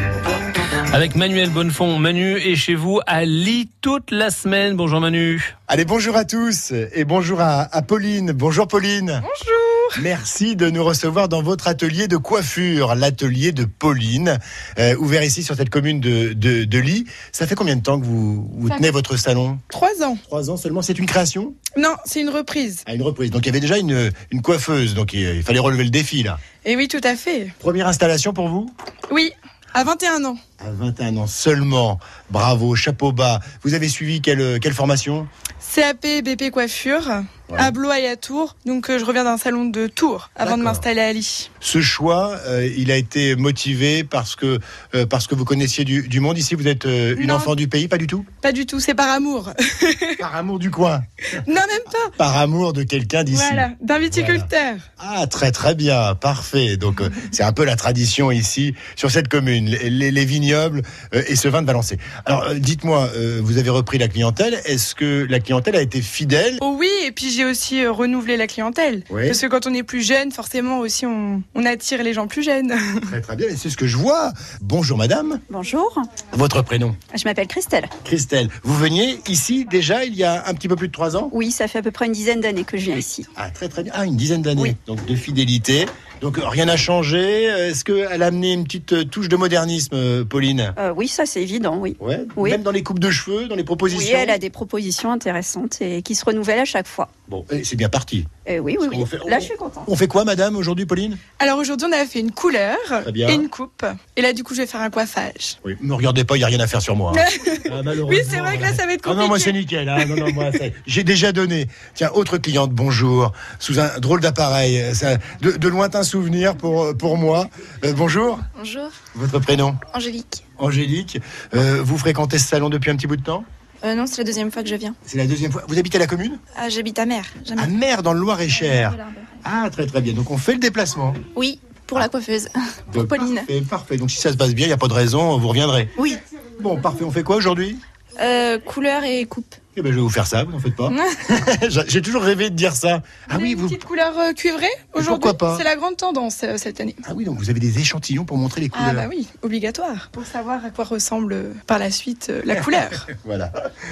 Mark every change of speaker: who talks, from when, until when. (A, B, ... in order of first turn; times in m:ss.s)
0:00.9-0:05.5 A
0:05.7-0:09.2 B
0:09.2-0:10.0 C
0:10.0-0:19.6 B
0:19.7-0:20.2 C
0:20.3-0:21.6 B
0:21.7-0:22.8 C
0:22.8-0:26.4 B
0:26.6-0:27.5 C
0:27.6-0:28.7 B
0:29.1-0:30.4 C
0:30.6-0:35.3 B
0:35.6-0:41.5 C
0:37.5-0:37.7 B
0:40.4-0:40.8 B
0:41.6-0:48.3 B
0:47.2-0:47.5 C
0:48.4-0:50.2 C
0:50.2-0:51.4 B
0:51.4-0:52.1 C
0:52.0-1:06.6 B
0:53.3-0:54.8 C
1:06.6-1:13.1 C
1:09.1-1:09.4 B
1:13.1-1:15.4 B
1:15.5-1:16.1 D
1:16.3-1:17.0 B
1:17.1-1:17.9 D
1:18.0-1:21.3 B
1:21.3-1:23.3 D
1:23.3-1:30.8 B
1:30.8-1:32.6 D
1:32.0-1:34.4 B
1:33.9-1:37.1 D
1:37.3-1:38.3 B
1:38.4-1:39.9 D
1:38.8-1:41.2 B
1:41.4-1:45.6 C
1:43.0-1:43.5 B
1:45.6-1:58.4 B
1:47.1-1:50.4 C
1:58.6-1:58.9 E
1:59.1-1:59.8 B
1:59.9-2:00.4 E
2:00.6-2:03.5 B
2:03.8-2:05.0 E
2:05.0-2:06.4 B
2:06.5-2:07.7 E
2:07.6-2:11.2 B
2:11.3-2:13.5 E
2:12.9-2:16.0 B
2:16.6-2:17.8 B
2:18.2-2:19.6 E
2:19.7-2:23.8 B
2:23.3-2:27.0 C
2:25.0-2:25.6 B
2:27.0-2:29.1 B
2:28.7-2:33.0 C
2:32.5-2:33.5 B